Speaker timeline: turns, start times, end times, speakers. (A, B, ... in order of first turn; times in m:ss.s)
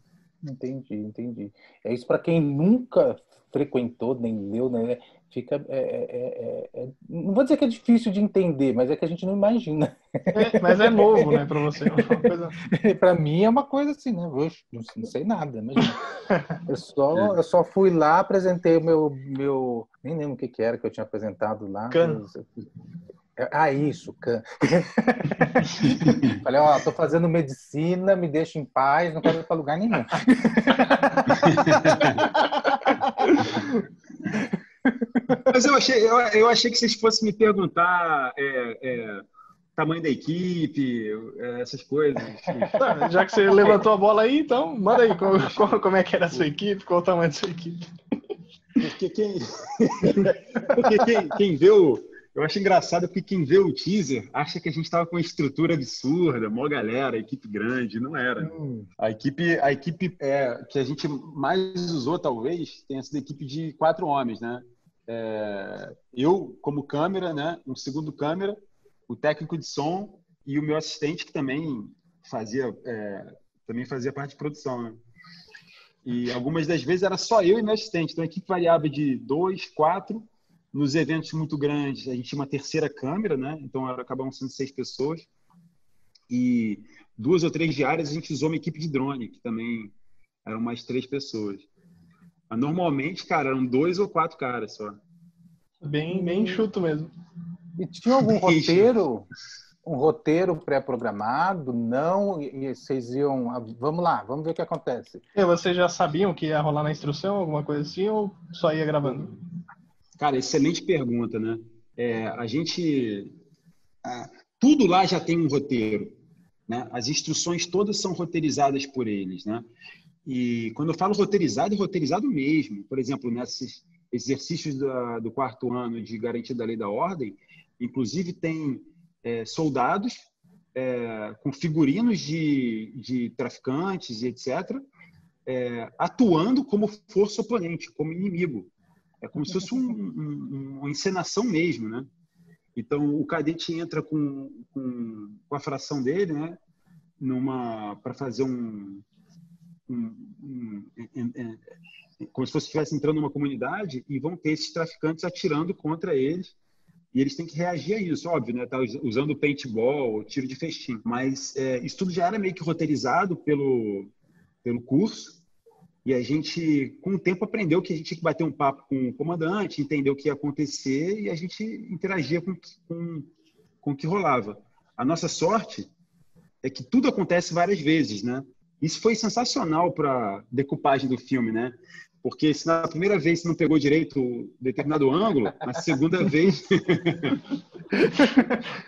0:00.4-0:11.4 A
0:10.3-0:12.6 B
0:12.0-0:16.0 A
0:16.6-0:22.5 A
0:21.9-0:22.2 B
0:23.4-0:33.5 A
0:25.2-0:25.7 B
0:25.8-0:26.4 C
0:31.3-0:32.3 C
0:32.9-0:33.8 B
0:35.5-0:39.2 C
0:39.8-0:42.8 C
0:42.5-0:42.9 A
0:42.7-0:47.8 B
0:48.8-1:08.6 C
0:58.4-0:58.9 A
1:09.1-1:15.0 C
1:16.0-1:25.3 C
1:26.3-1:29.9 C
1:30.4-1:31.7 C
1:32.5-1:35.0 C
1:35.8-1:37.1 B
1:36.1-1:36.6 A
1:37.8-1:39.3 A
1:38.1-1:38.9 C
1:39.8-1:45.2 A
1:45.3-1:49.4 B
1:50.2-1:53.3 C
1:54.0-1:56.1 C
1:56.7-1:59.6 C
2:00.2-2:14.8 C
2:15.4-2:18.7 C
2:19.2-2:22.1 C
2:22.8-2:26.6 C
2:27.2-2:29.0 C
2:29.9-2:31.6 C
2:32.2-2:36.5 C
2:37.1-2:44.1 C
2:44.6-2:45.4 C
2:46.0-2:53.3 C
2:53.8-2:55.9 C
2:56.6-3:07.4 C
3:08.1-3:08.5 B